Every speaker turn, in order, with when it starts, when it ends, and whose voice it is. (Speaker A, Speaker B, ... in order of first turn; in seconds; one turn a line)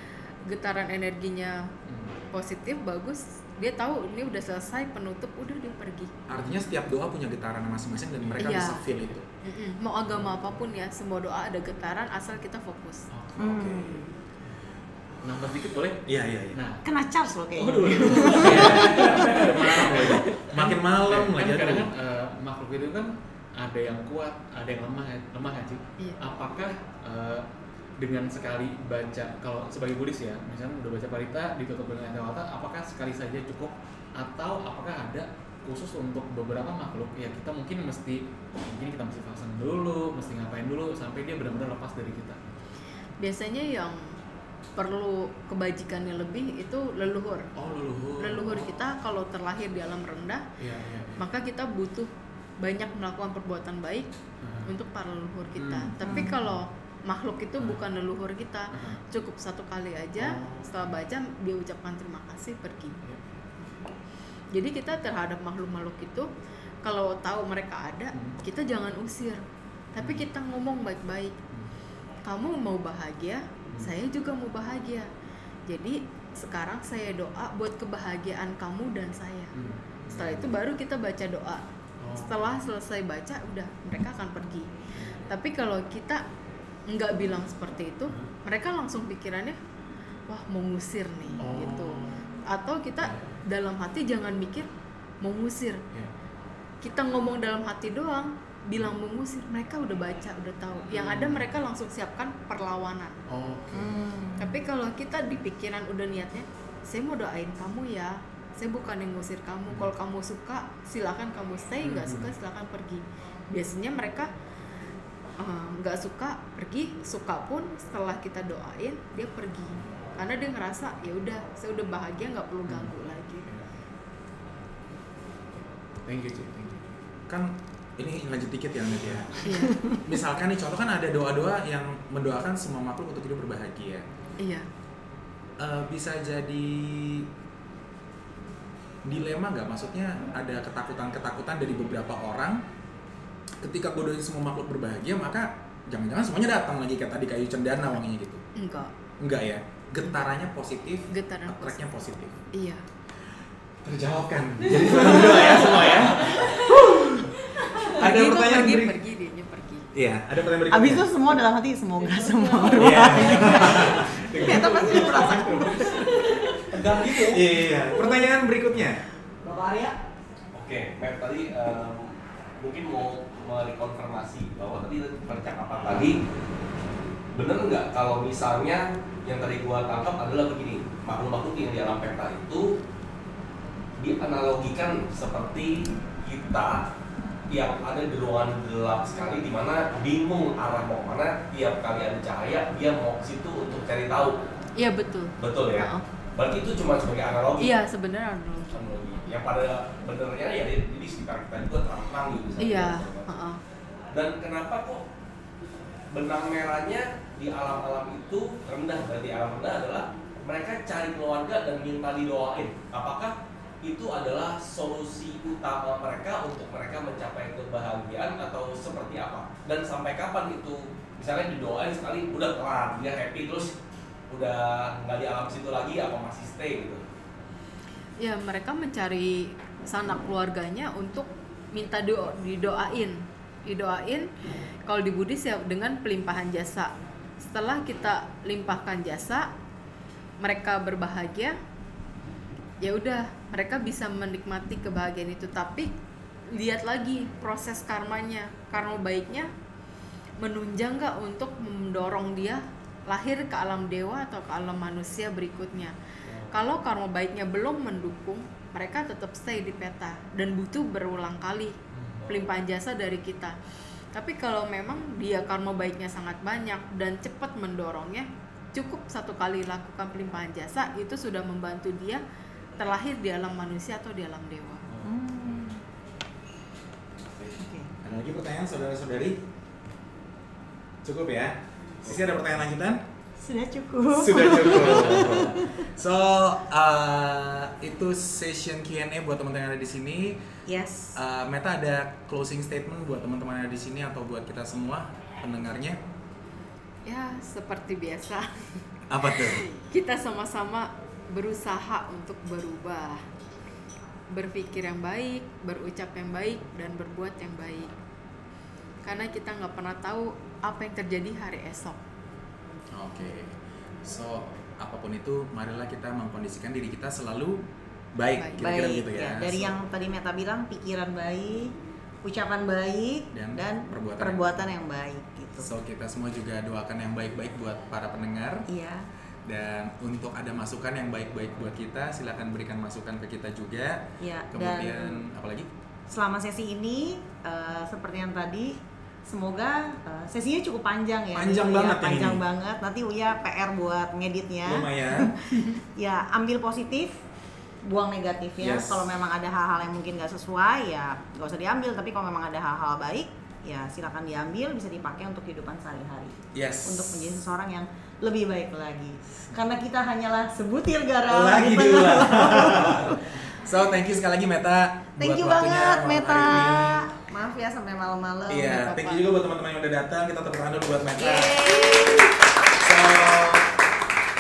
Speaker A: 0.5-1.7
Speaker B: 1.9-2.2
Speaker A: 2.3-6.2
Speaker C: 6.3-9.2
Speaker B: 6.4-6.7
Speaker B: 8.2-9.1
Speaker A: 8.4-8.8
Speaker A: 9.4-13.1
Speaker B: 10.1-10.4
Speaker B: 13.1-13.6
Speaker D: 13.4-14.1
Speaker C: 13.5-13.8
Speaker B: 15.2-16.0
Speaker C: 16.1-16.6
Speaker B: 16.5-16.8
Speaker D: 16.9-19.7
Speaker B: 17.6-27.5
Speaker C: 18.3-19.0
Speaker C: 19.7-21.9
Speaker B: 28.0-42.4
Speaker A: 43.2-44.1
Speaker A: 44.8-47.5
Speaker B: 47.6-48.8
Speaker A: 48.2-50.5
Speaker B: 50.6-51.2
Speaker A: 51.2-54.1
Speaker B: 54.4-54.7
Speaker A: 54.6-63.0
Speaker B: 55.5-56.6
Speaker D: 56.0-56.3
Speaker B: 58.7-59.0
Speaker B: 60.2-61.0
Speaker B: 63.0-63.8
Speaker A: 64.5-66.3
Speaker A: 66.8-69.4
Speaker B: 68.1-68.4
Speaker A: 69.9-71.4
Speaker B: 70.0-70.3
Speaker A: 72.2-75.1
Speaker A: 75.7-79.5
Speaker B: 79.5-80.5
Speaker A: 80.1-86.2
Speaker B: 82.0-82.5
Speaker B: 85.0-85.3
Speaker A: 86.9-89.6
Speaker A: 90.3-94.7
Speaker B: 91.4-92.1
Speaker B: 93.0-93.4
Speaker A: 95.2-95.8
Speaker A: 96.8-103.2
Speaker B: 100.9-101.5
Speaker B: 103.3-104.0
Speaker D: 103.7-104.5
Speaker A: 104.4-114.3
Speaker B: 111.8-112.3
Speaker A: 115.4-123.5
Speaker B: 122.7-123.7
Speaker B: 125.5-127.0
Speaker C: 127.3-129.4
Speaker B: 129.0-129.9
Speaker A: 129.4-129.8
Speaker C: 129.9-134.1
Speaker A: 134.4-134.7
Speaker C: 135.6-137.3
Speaker C: 139.1-142.6
Speaker C: 143.6-148.4
Speaker A: 148.6-148.9
Speaker C: 149.2-152.4
Speaker A: 151.1-151.8
Speaker A: 152.5-152.8
Speaker C: 153.8-156.6
Speaker D: 156.6-157.3
Speaker A: 157.6-159.9
Speaker C: 157.9-159.0
Speaker C: 159.9-161.1
Speaker D: 160.7-166.5
Speaker C: 162.8-165.8
Speaker B: 163.0-163.6
Speaker E: 166.8-167.2
Speaker C: 167.2-169.0
Speaker D: 169.4-169.9
Speaker E: 170.5-176.2
Speaker E: 177.3-182.7
Speaker E: 184.0-186.8
Speaker E: 187.5-194.3
Speaker A: 194.8-196.1
Speaker E: 195.4-197.8
Speaker A: 197.6-198.7
Speaker E: 198.7-203.3
Speaker A: 202.6-203.6
Speaker E: 204.1-205.0
Speaker E: 206.1-223.7
Speaker E: 224.3-227.0
Speaker A: 228.2-234.3
Speaker A: 234.9-239.5
Speaker A: 240.4-241.6
Speaker A: 242.8-245.9
Speaker A: 246.5-249.5
Speaker A: 250.4-255.9
Speaker B: 256.3-256.6
Speaker A: 256.5-261.8
Speaker B: 261.9-262.4
Speaker A: 262.3-263.6
Speaker A: 264.1-272.2
Speaker A: 272.8-274.8
Speaker B: 274.9-275.7
Speaker D: 275.0-275.8
Speaker D: 277.6-277.9
Speaker C: 278.0-279.4
Speaker C: 281.0-283.0
Speaker D: 283.4-285.8
Speaker C: 284.1-290.4
Speaker D: 290.6-291.2
Speaker C: 291.1-296.0
Speaker A: 297.1-298.5
Speaker C: 299.1-299.7
Speaker A: 299.7-303.2
Speaker A: 304.3-307.9
Speaker A: 309.0-312.0
Speaker C: 312.9-317.6
Speaker C: 318.1-319.7
Speaker D: 318.6-325.7
Speaker C: 323.3-324.7
Speaker C: 325.6-328.6
Speaker D: 328.7-329.1
Speaker C: 329.5-335.7
Speaker D: 334.2-335.3
Speaker D: 336.1-347.1
Speaker C: 341.4-342.4
Speaker C: 344.6-345.4
Speaker D: 347.8-363.2
Speaker C: 348.6-349.1
Speaker C: 356.5-357.3
Speaker C: 361.3-367.1
Speaker D: 365.2-369.3
Speaker C: 368.5-373.7
Speaker D: 371.2-372.5